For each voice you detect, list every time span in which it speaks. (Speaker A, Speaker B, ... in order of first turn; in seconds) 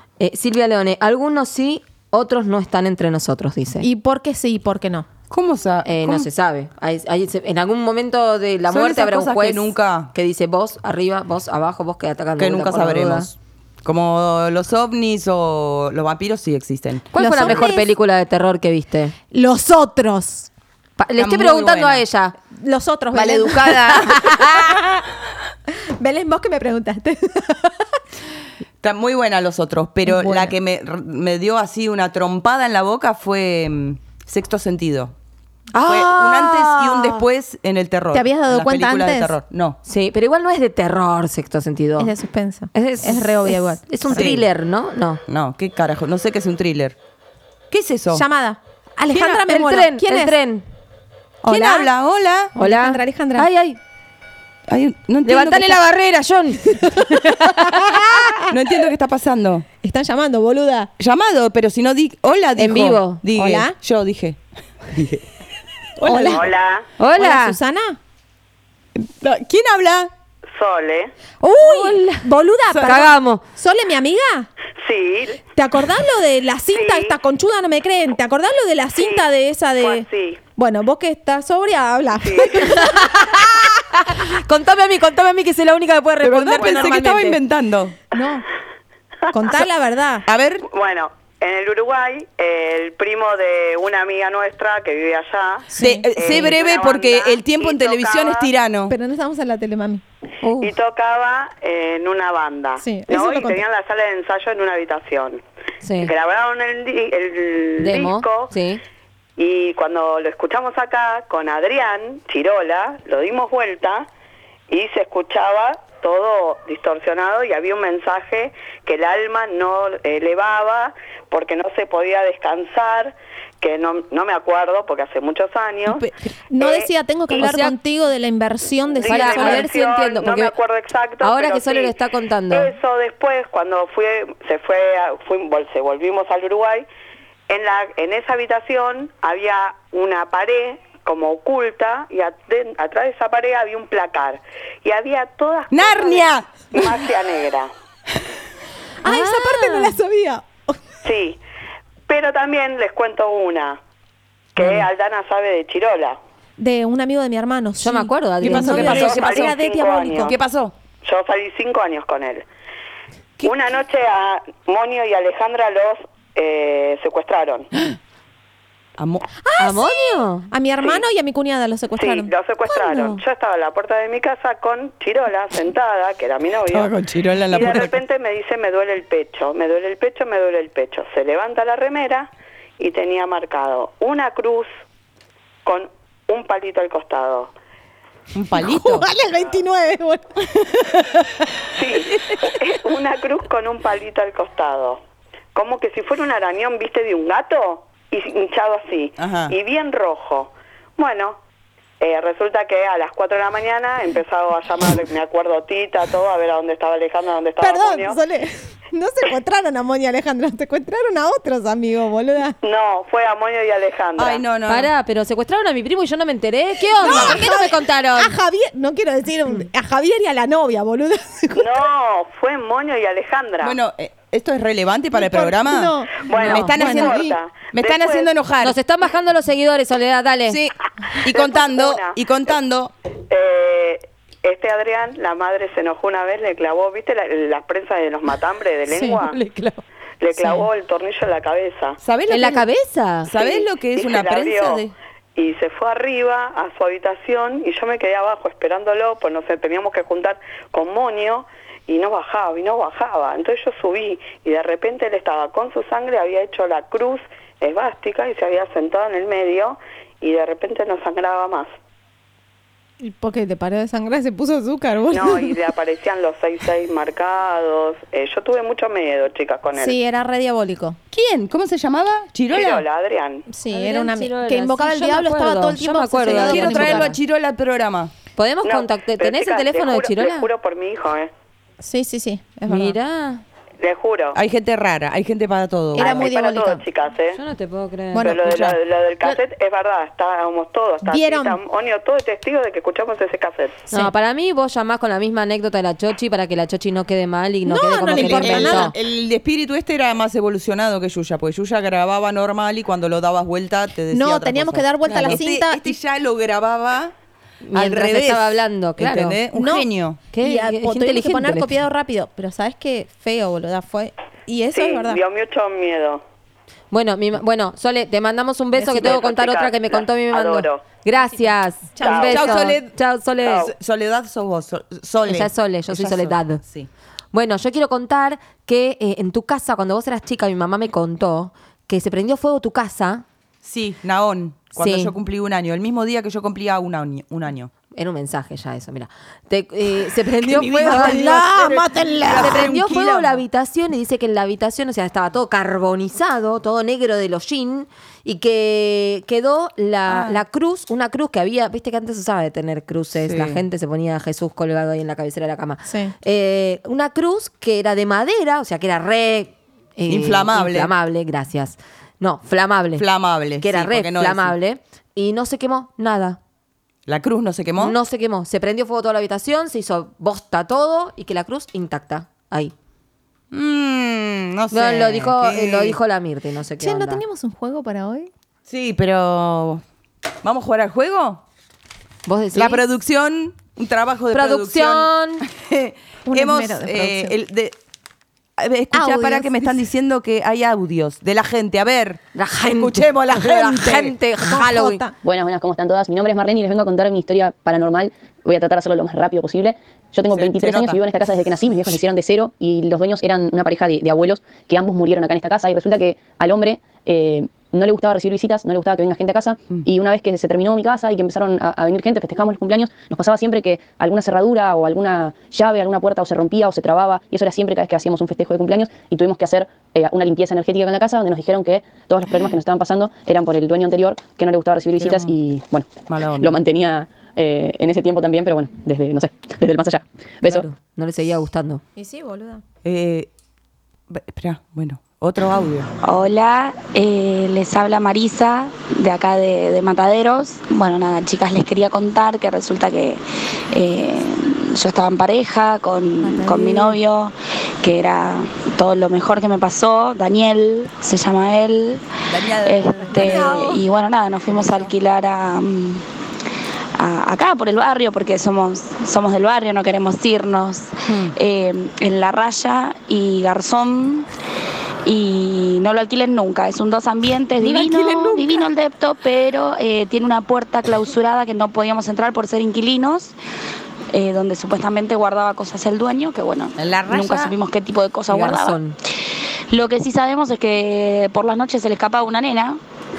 Speaker A: 0.2-3.9, 5.8-13.3, 17.1-19.1, 21.0-22.4, 35.7-37.2, 39.9-42.1, 42.7-45.2, 49.1-50.6, 52.6-53.8, 55.2-58.2, 62.6-63.2, 67.0-67.6, 71.6-72.0, 72.8-73.4, 82.6-87.4, 100.4-100.7, 105.8-106.1, 107.8-108.8, 127.3-127.8, 129.0-130.6, 131.2-132.8, 149.1-150.0, 157.8-159.2, 169.6-170.5, 172.7-173.2, 214.7-218.3, 228.6-230.6, 239.3-239.8, 242.3-243.3, 273.7-277.1, 278.4-280.5, 282.7-283.4, 286.0-286.6, 287.3-288.3, 293.9-298.9, 305.1-305.4, 307.6-309.4, 310.3-311.8, 316.9-323.7, 325.2-326.6, 327.3-333.2, 334.8-335.1, 337.9-341.5, 342.3-363.1, 363.6-366.4, 367.8-372.7, 374.7-377.2, 382.3-382.8, 384.3-385.4, 392.4-395.0, 430.4-431.8, 478.3-479.0
Speaker B: 3.8-5.1, 17.2-17.9, 19.3-20.5, 22.6-24.9, 26.0-27.9, 30.1-30.6, 38.1-39.3, 42.0-44.3, 48.1-50.4, 51.5-51.9, 52.6-53.5, 56.8-58.4, 59.8-60.9, 63.4-63.8, 66.0-66.5, 67.2-68.0, 71.4-74.5, 75.5-83.4, 88.1-88.5, 89.3-90.3, 95.7-96.1, 98.9-100.0, 102.8-103.6, 125.9-129.7, 149.0-150.7, 156.6-160.3, 169.4-172.3, 188.6-191.2, 207.6-212.6, 217.0-221.7, 225.1-227.3, 238.9-239.2, 263.0-265.6, 269.8-271.0, 273.5-277.2, 281.8-283.0, 286.0-286.8, 288.1-288.4, 291.1-291.6, 297.7-298.9, 304.1-305.9, 309.6-309.9, 310.4-315.2, 322.0-322.6, 340.4-342.7, 355.9-356.1, 376.8-378.3, 386.3-387.4, 388.9-389.8, 394.5-395.1, 432.0-432.6, 446.3-446.9, 453.1-453.8
Speaker C: 5.3-6.3, 8.7-10.1, 12.4-17.6, 21.2-22.1, 23.1-25.0, 28.8-35.1, 35.8-39.8, 44.1-44.5, 45.3-47.0, 47.7-48.2, 51.4-52.5, 54.7-55.8, 58.5-59.7, 61.0-65.2, 66.0-66.5, 69.0-70.1, 72.7-73.0, 86.2-88.0, 90.3-90.6, 95.8-99.0, 145.7-146.9, 158.4-159.6, 160.2-160.7, 169.0-169.3, 176.7-178.0, 188.3-189.1, 199.2-199.6, 214.2-214.9, 217.0-217.4, 223.6-228.8, 230.5-232.9, 242.0-242.7, 243.2-244.9, 271.1-272.9, 276.3-278.1, 284.3-286.2, 288.3-288.8, 298.0-307.1, 307.7-310.2, 322.2-322.9, 323.5-326.9, 333.6-337.7, 340.5-343.4, 350.1-350.4, 353.2-353.6, 360.1-360.9, 363.0-364.6, 367.1-368.0, 373.5-376.0, 378.7-379.8, 380.4-381.4, 382.5-387.8, 388.6-394.2, 400.3-401.0, 425.0-425.3, 426.1-426.6, 432.9-433.3, 434.1-435.9, 452.3-453.7, 461.1-461.3, 467.6-468.5, 476.8-477.5
Speaker D: 66.3-66.9, 70.5-71.1, 74.8-75.4, 76.7-77.2, 79.0-79.2, 79.8-80.4, 82.2-82.6, 90.6-98.5, 100.6-105.4, 106.0-108.5, 109.4-114.1, 114.7-126.0, 126.6-126.9, 129.0-131.9, 132.5-136.9, 137.5-147.7, 151.0-151.4, 152.1-153.8, 154.6-156.2, 158.9-160.4, 161.0-162.4, 163.4-167.7, 172.0-176.9, 177.5-184.7, 185.7-187.5, 191.8-195.0, 195.5-201.4, 202.0-208.2, 212.6-214.4, 221.6-223.8, 226.2-228.3, 231.3-232.2, 233.3-239.4, 240.2-242.0, 243.4-261.7, 265.1-270.0, 272.5-273.5, 278.6-281.3, 283.8-284.4, 286.0-287.4, 288.2-293.9, 314.7-316.2, 319.0-320.9, 322.0-322.4
Speaker E: 395.2-430.7
Speaker F: 436.0-443.2, 443.7-452.1, 452.6-456.1, 457.0-464.3, 465.1-473.3, 474.1-478.8, 479.7-482.8